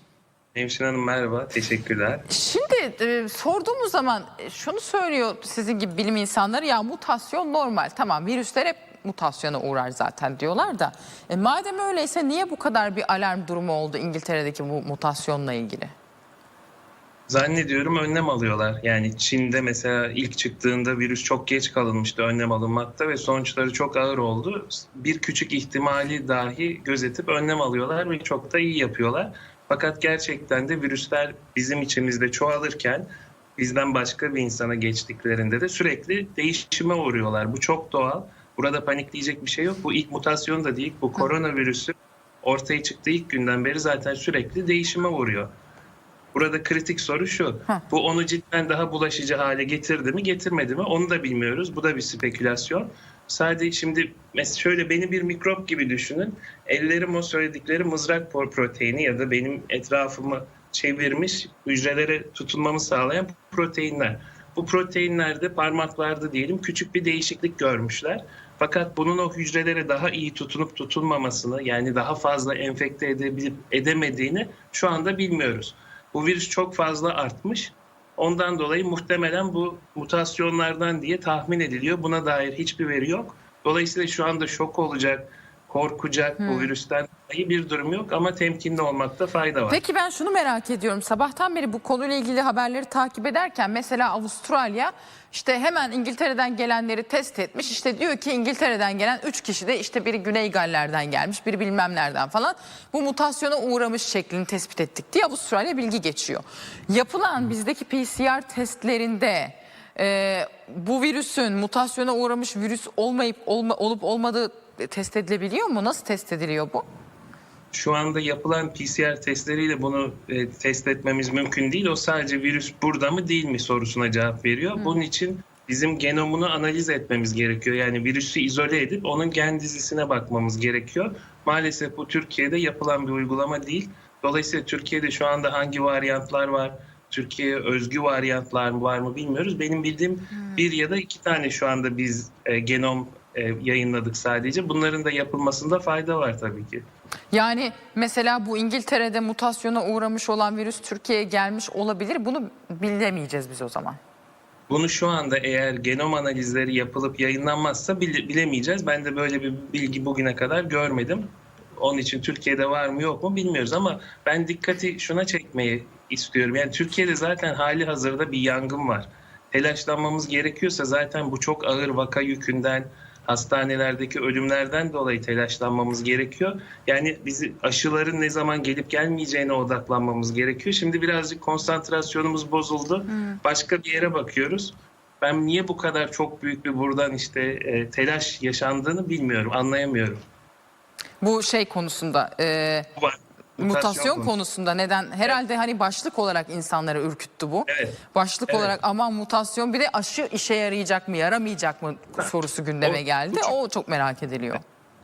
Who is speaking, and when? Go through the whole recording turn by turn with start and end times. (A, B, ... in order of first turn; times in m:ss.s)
0:00.6-0:02.2 A
0:02.3-0:15.9 B
0:17.3-0:45.5 A
0:46.3-1:29.8 A
1:26.4-1:26.7 B
1:29.7-1:56.8 B
1:57.7-2:26.8 A
2:27.3-2:34.0 B
2:34.7-3:10.2 A
3:03.1-3:03.4 B
3:11.2-3:12.9 B
3:13.0-3:14.4 A
3:13.6-3:24.6 B
3:17.7-3:18.0 A
3:18.5-3:18.8 A
3:22.2-3:23.6 A